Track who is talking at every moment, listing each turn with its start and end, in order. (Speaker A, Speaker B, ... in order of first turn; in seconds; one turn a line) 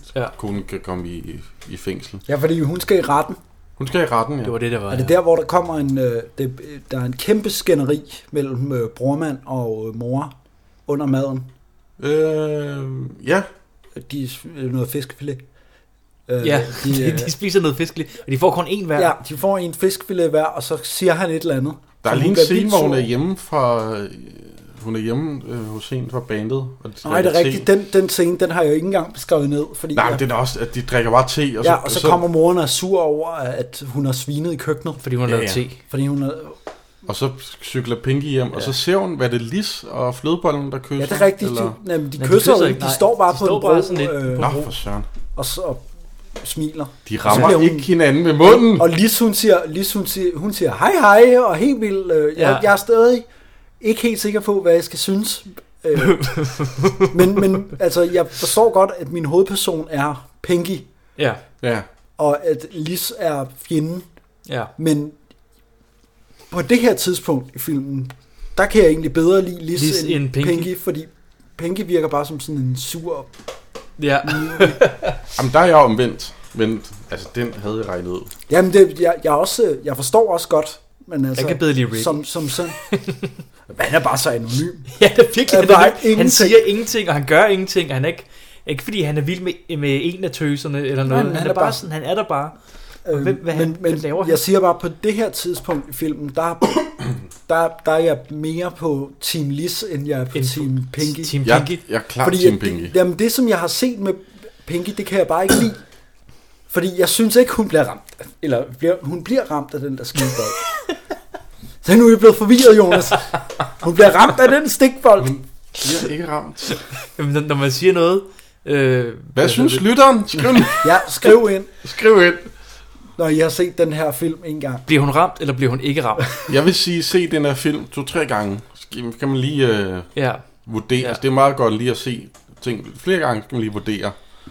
Speaker A: 0.3-2.2
Speaker B: 2.3-3.4
Speaker A: 3.8-4.5
Speaker C: 4.5-5.2
Speaker B: 4.9-10.3
Speaker B: 10.9-11.5
Speaker A: 12.0-13.5
Speaker B: 13.9-15.4
Speaker B: 16.3-17.3
Speaker C: 16.4-19.1
Speaker B: 18.9-23.1
Speaker A: 22.0-27.7
Speaker B: 27.0-30.2
Speaker A: 29.9-32.2
Speaker B: 31.6-35.0
Speaker C: 35.0-35.8
Speaker A: 35.3-35.6
Speaker B: 35.9-36.6
Speaker A: 37.1-41.8
Speaker B: 41.0-44.5
Speaker C: 42.2-44.7
Speaker A: 44.4-45.1
Speaker B: 45.4-45.8
Speaker B: 46.4-53.3
Speaker A: 47.1-48.9
Speaker C: 52.4-52.7
Speaker B: 53.8-56.3
Speaker C: 56.0-57.6
Speaker B: 57.1-60.9
Speaker C: 61.2-61.4
Speaker A: 61.6-61.9
Speaker B: 62.2-64.1
Speaker C: 64.5-64.7
Speaker B: 64.8-65.2
Speaker B: 66.5-73.3
Speaker C: 69.8-70.7
Speaker C: 74.0-75.2
Speaker B: 74.2-74.8
Speaker A: 75.3-78.3
Speaker B: 78.5-82.8
Speaker C: 81.4-82.2
Speaker C: 82.9-83.3
Speaker B: 83.7-84.9
Speaker C: 84.9-92.6
Speaker B: 85.5-86.7
Speaker B: 91.0-91.8
Speaker B: 93.0-101.4
Speaker C: 93.1-94.4
Speaker C: 100.3-101.8
Speaker A: 101.4-103.0
Speaker B: 102.2-105.8
Speaker B: 106.7-110.6
Speaker B: 111.8-115.4
Speaker A: 115.2-116.8
Speaker C: 117.1-119.8
Speaker A: 119.4-121.0
Speaker B: 120.8-121.7
Speaker A: 121.8-122.5
Speaker B: 123.2-124.9
Speaker C: 124.9-126.3
Speaker A: 126.5-134.2
Speaker C: 130.2-130.5